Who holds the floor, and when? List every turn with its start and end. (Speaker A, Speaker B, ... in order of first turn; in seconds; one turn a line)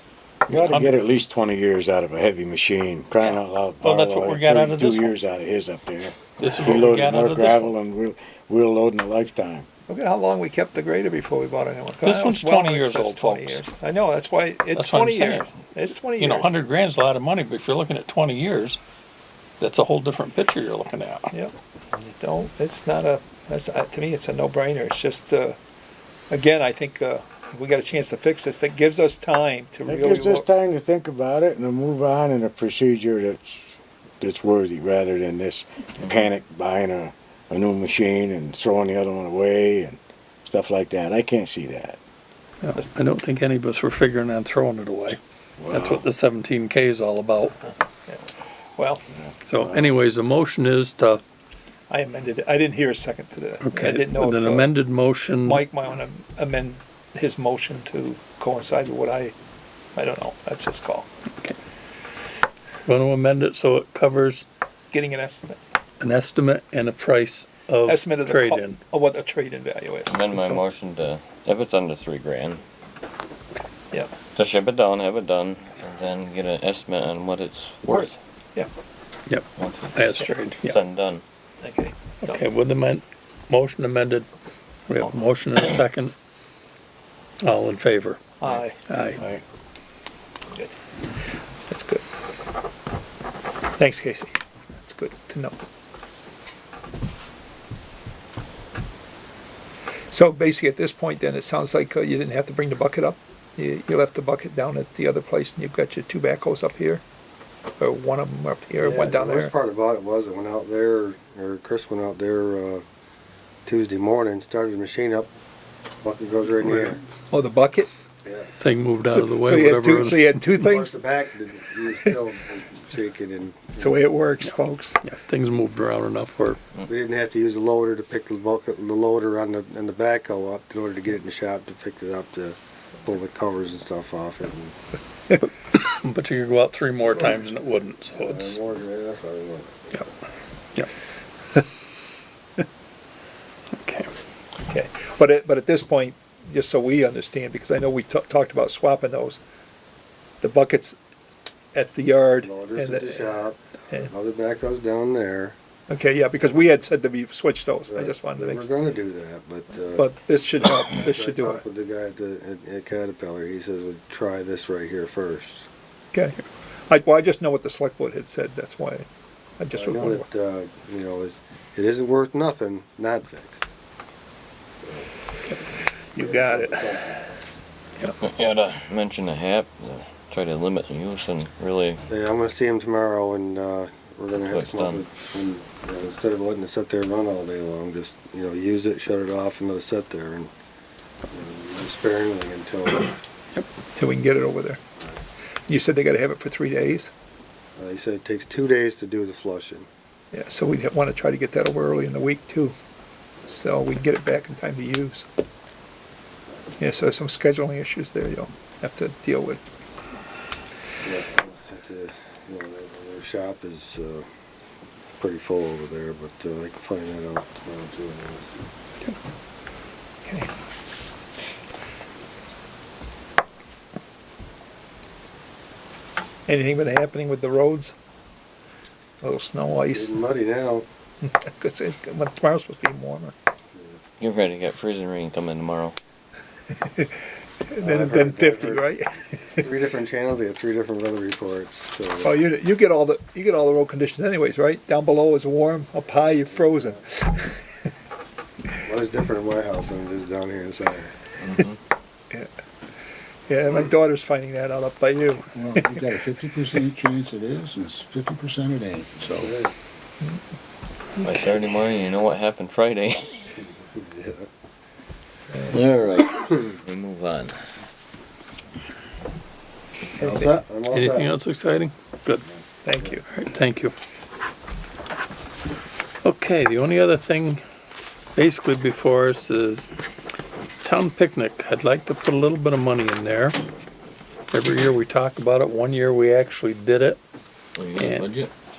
Speaker A: 0.5-9.7
Speaker B: 0.5-1.0
Speaker B: 3.2-5.2
Speaker B: 6.4-7.7
Speaker C: 9.9-16.6
Speaker B: 12.0-13.6
Speaker B: 14.8-15.5
Speaker B: 16.1-18.8
Speaker B: 19.6-21.3
Speaker C: 21.3-25.6
Speaker C: 26.3-30.4
Speaker A: 29.9-33.6
Speaker A: 34.2-42.0
Speaker B: 42.6-47.6
Speaker A: 45.6-46.0
Speaker C: 48.1-49.0
Speaker B: 49.4-51.2
Speaker A: 49.6-49.9
Speaker C: 51.9-54.8
Speaker B: 53.6-55.6
Speaker C: 55.4-59.3
Speaker C: 60.0-61.1
Speaker B: 62.9-64.5
Speaker C: 64.9-65.6
Speaker B: 66.0-68.8
Speaker C: 67.8-70.6
Speaker D: 70.1-72.6
Speaker D: 74.3-78.1
Speaker C: 77.9-78.7
Speaker B: 79.3-80.8
Speaker D: 79.6-80.0
Speaker D: 80.6-81.2
Speaker C: 81.6-82.4
Speaker B: 82.2-84.3
Speaker B: 84.9-86.1
Speaker B: 87.4-88.2
Speaker C: 88.4-88.8
Speaker B: 88.9-89.2
Speaker C: 91.7-92.0
Speaker C: 93.8-95.6
Speaker C: 100.1-107.0
Speaker C: 107.8-109.5
Speaker E: 108.8-112.8
Speaker E: 113.7-115.3
Speaker E: 116.0-117.0
Speaker C: 116.7-117.9
Speaker E: 118.2-118.5
Speaker B: 118.6-120.4
Speaker C: 119.1-121.0
Speaker E: 120.6-124.1
Speaker C: 123.7-125.0
Speaker B: 125.0-126.6
Speaker E: 126.9-134.8
Speaker B: 135.4-138.6
Speaker E: 138.1-140.0
Speaker B: 143.8-144.1
Speaker C: 144.6-149.4
Speaker C: 150.4-150.9
Speaker C: 151.8-154.1
Speaker E: 152.4-155.6
Speaker C: 155.9-158.7
Speaker E: 157.9-160.1
Speaker C: 159.9-161.7
Speaker E: 160.7-165.7
Speaker C: 166.1-166.4
Speaker C: 166.9-169.1
Speaker C: 169.6-170.3
Speaker E: 169.7-173.7
Speaker E: 174.8-175.1
Speaker C: 175.5-177.3
Speaker E: 176.2-177.2
Speaker D: 178.2-182.0
Speaker E: 182.1-190.5
Speaker D: 184.4-185.1
Speaker E: 191.3-193.1
Speaker C: 193.9-194.8
Speaker C: 195.7-197.1
Speaker E: 197.8-199.9
Speaker C: 200.3-202.7
Speaker C: 203.5-205.2
Speaker C: 206.8-209.6
Speaker E: 211.0-214.3
Speaker E: 215.2-218.6
Speaker C: 220.2-220.5
Speaker C: 226.5-227.9
Speaker C: 229.2-230.2
Speaker E: 229.9-230.9
Speaker C: 231.2-233.3
Speaker D: 234.2-236.0
Speaker C: 236.8-237.1
Speaker C: 237.7-239.7
Speaker E: 237.8-238.9
Speaker E: 239.6-242.4
Speaker C: 242.2-247.6
Speaker E: 246.4-247.5
Speaker E: 248.8-251.2
Speaker D: 251.4-251.8
Speaker C: 253.5-256.1
Speaker F: 255.5-259.5
Speaker E: 259.4-259.7
Speaker D: 261.2-263.4
Speaker E: 263.5-264.5
Speaker D: 265.7-267.6
Speaker C: 270.2-270.6
Speaker E: 270.2-271.3
Speaker B: 270.9-272.4
Speaker C: 272.8-273.2
Speaker B: 273.3-273.9
Speaker B: 276.2-277.6
Speaker B: 278.4-279.9
Speaker B: 280.8-283.6
Speaker B: 284.5-287.2
Speaker D: 287.8-288.5
Speaker B: 288.0-288.2